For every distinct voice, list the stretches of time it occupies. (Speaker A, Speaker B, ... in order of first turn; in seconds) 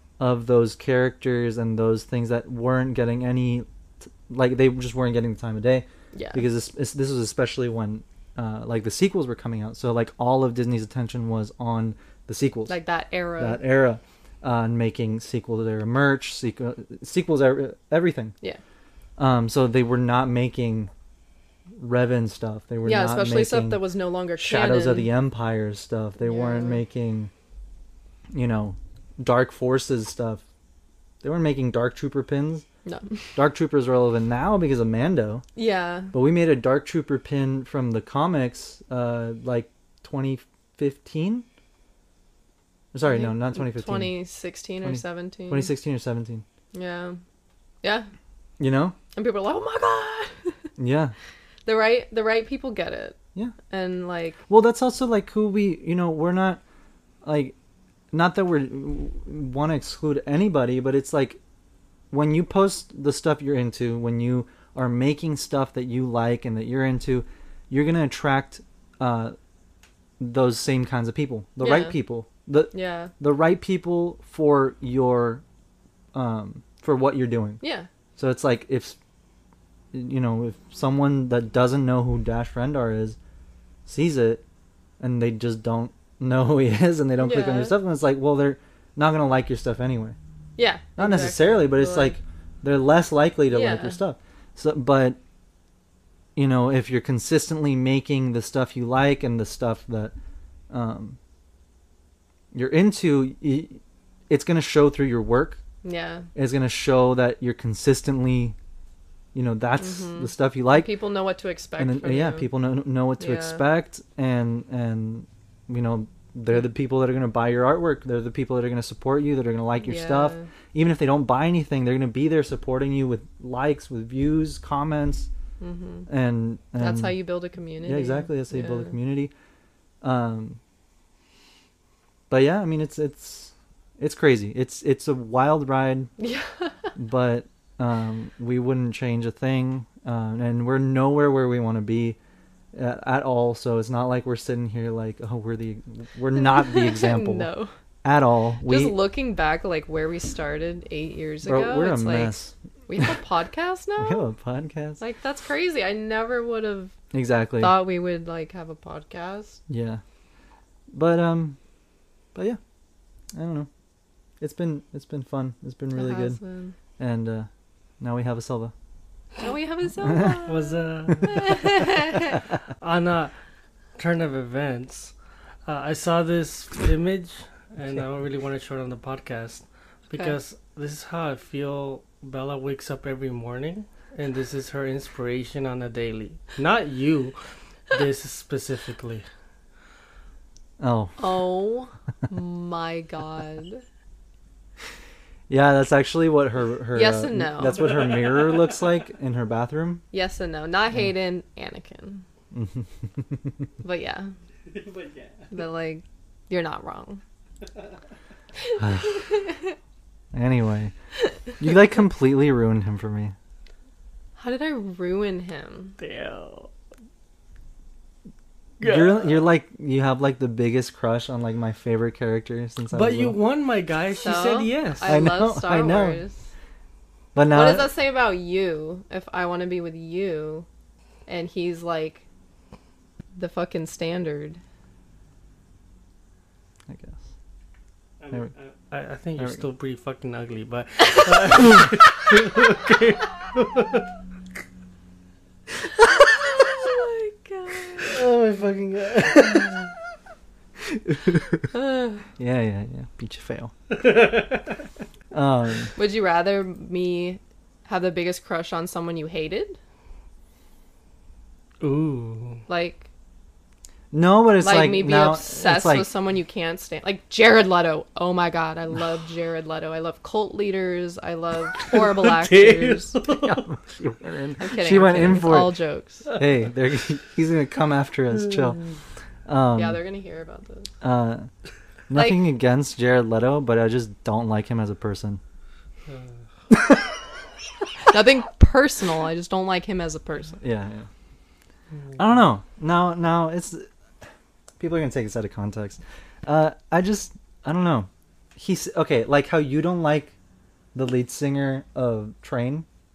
Speaker A: 0.2-12.8, 13.4-18.3, 19.2-20.9, 21.8-23.8, 24.4-27.3, 28.3-30.4, 31.2-32.7, 33.4-35.4, 36.1-41.5, 42.9-44.2, 44.8-46.5, 48.6-49.0, 50.8-51.1, 54.5-56.6, 57.2-57.5, 58.1-61.4, 62.1-69.4, 70.2-75.4, 76.1-77.6, 78.2-79.0, 79.9-83.2, 83.9-84.4, 85.0-90.2, 91.0-95.2, 96.4-100.1, 100.7-101.2, 102.5-105.6, 106.3-108.6, 109.3-110.9, 111.8-125.3, 126.1-127.2, 127.8-129.3, 130.0-130.6, 132.3-136.1, 137.0-142.2, 142.7-147.5, 148.0-149.0, 151.4-153.1, 154.0-155.0, 157.1-157.7, 159.7-160.0, 160.9-161.6, 163.3-163.7, 164.4-166.4, 167.0-167.5, 168.0-168.7, 170.0-170.4, 190.8-191.2, 195.5-200.0, 202.5-203.7, 208.8-209.2, 210.3-210.9, 211.6-213.3, 218.8-223.4, 225.1-226.2, 227.3-227.9, 236.9-237.2, 239.4-239.6, 248.2-249.7, 250.9-251.7, 252.4-253.7, 255.3-255.9, 264.1-266.1, 273.4-275.8, 276.3-278.9, 279.5-280.0, 281.0-281.5, 282.1-285.4, 286.7-287.0, 290.6-291.1, 292.2-293.9, 294.8-300.3, 300.9-302.9
Speaker B: 6.1-6.5, 12.7-13.6, 22.8-25.1, 26.2-26.8, 32.9-33.4, 35.6-36.1, 43.0-45.7, 46.7-47.2, 47.8-48.1, 49.1-50.7, 51.7-53.2, 53.7-54.4, 71.6-72.0, 72.7-73.1, 77.6-77.9, 87.2-87.8, 90.6-92.2, 93.5-94.0, 105.8-106.3, 109.8-112.5, 113.2-113.6, 119.8-120.5, 125.6-126.1, 126.8-128.9, 136.2-136.9, 146.4-147.7, 148.6-152.4, 152.9-154.2, 155.0-157.0, 157.6-159.6, 165.9-166.8, 169.4-170.7, 171.2-172.4, 180.1-180.4, 191.2-193.8, 196.9-197.9, 200.1-202.2, 203.8-204.3, 205.5-207.2, 208.6-209.7, 214.4-215.9, 224.2-226.4, 227.5-230.7, 231.3-232.2, 233.4-234.6, 246.4-248.2, 251.7-252.3, 255.9-259.8, 262.7-263.1, 264.6-273.2, 274.6-276.2, 279.7-280.9, 282.1-282.4, 288.1-290.6
Speaker C: 170.5-171.8, 172.8-173.4, 174.0-175.2, 175.7-189.3, 204.7-205.5, 216.0-216.7, 218.8-219.4, 222.9-225.2, 238.2-244.1, 248.1-249.8, 253.9-254.7, 261.8-262.6, 271.9-273.6, 286.1-286.4, 292.0-292.2